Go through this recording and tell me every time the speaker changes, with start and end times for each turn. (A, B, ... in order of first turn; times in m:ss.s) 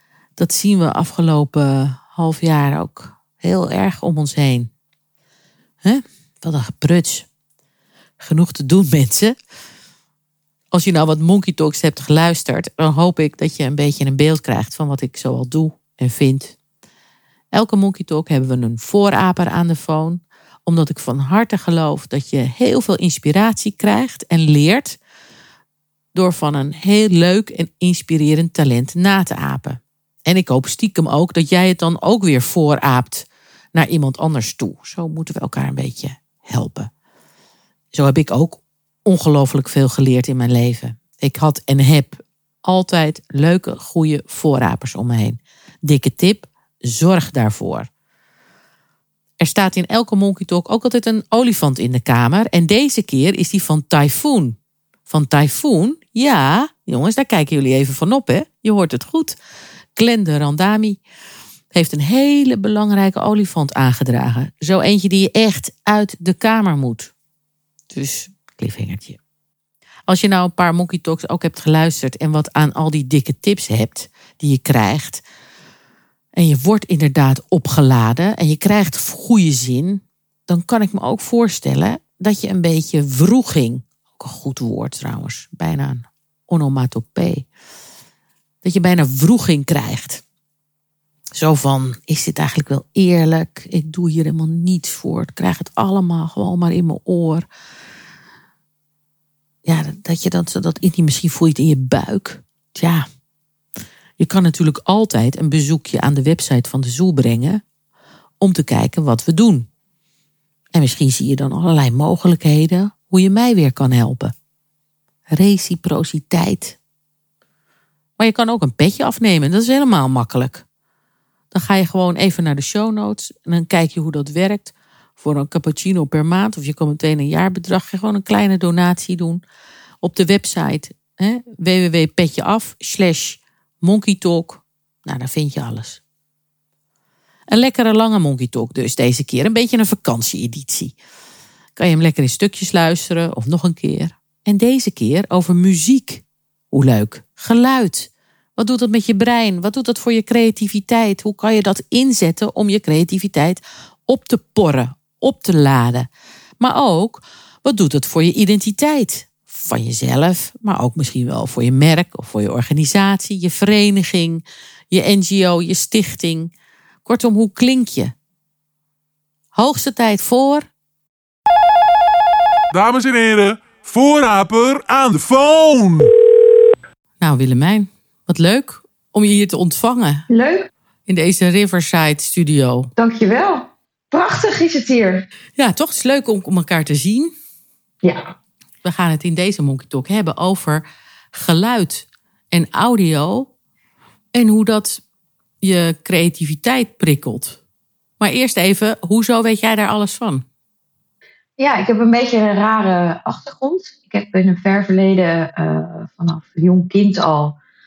0:00.4-0:04.7 A
0:05.8-0:07.3 A
0:08.2-0:09.4 A
0:10.7-0:16.6 A
0:17.5-0:25.0 A
0:26.1-0:36.9 A
0:37.9-0:47.9 A
0:49.4-0:54.6 A
0:55.1-0:59.4 A
1:00.0-1:01.0 A
1:01.7-1:07.1 A
1:07.9-1:09.2 A
1:10.1-1:15.2 A
1:16.4-1:27.5 A
1:28.6-1:30.2 A
1:31.4-1:37.5 A
1:39.6-1:43.0 A
1:44.2-1:47.6 A
1:48.4-1:49.7 A
1:50.7-1:54.3 A
1:55.3-1:56.8 A
1:58.2-2:00.6 A
2:01.5-2:09.4 A
2:10.0-2:16.0 A
2:17.5-2:21.0 A
2:21.8-2:36.1 A
2:36.6-2:46.5 A
2:47.1-2:48.1 A
2:49.5-2:50.7 A
2:52.7-2:56.1 B
2:57.2-3:00.3 A
3:00.3-3:00.7 C
3:01.1-3:02.9 A
3:03.0-3:05.3 C
3:05.6-3:07.3 A
3:08.0-3:08.3 C
3:08.8-3:13.5 A
3:14.3-3:15.0 A
3:15.6-3:17.6 A
3:18.2-3:20.4 A
3:21.6-3:27.6 C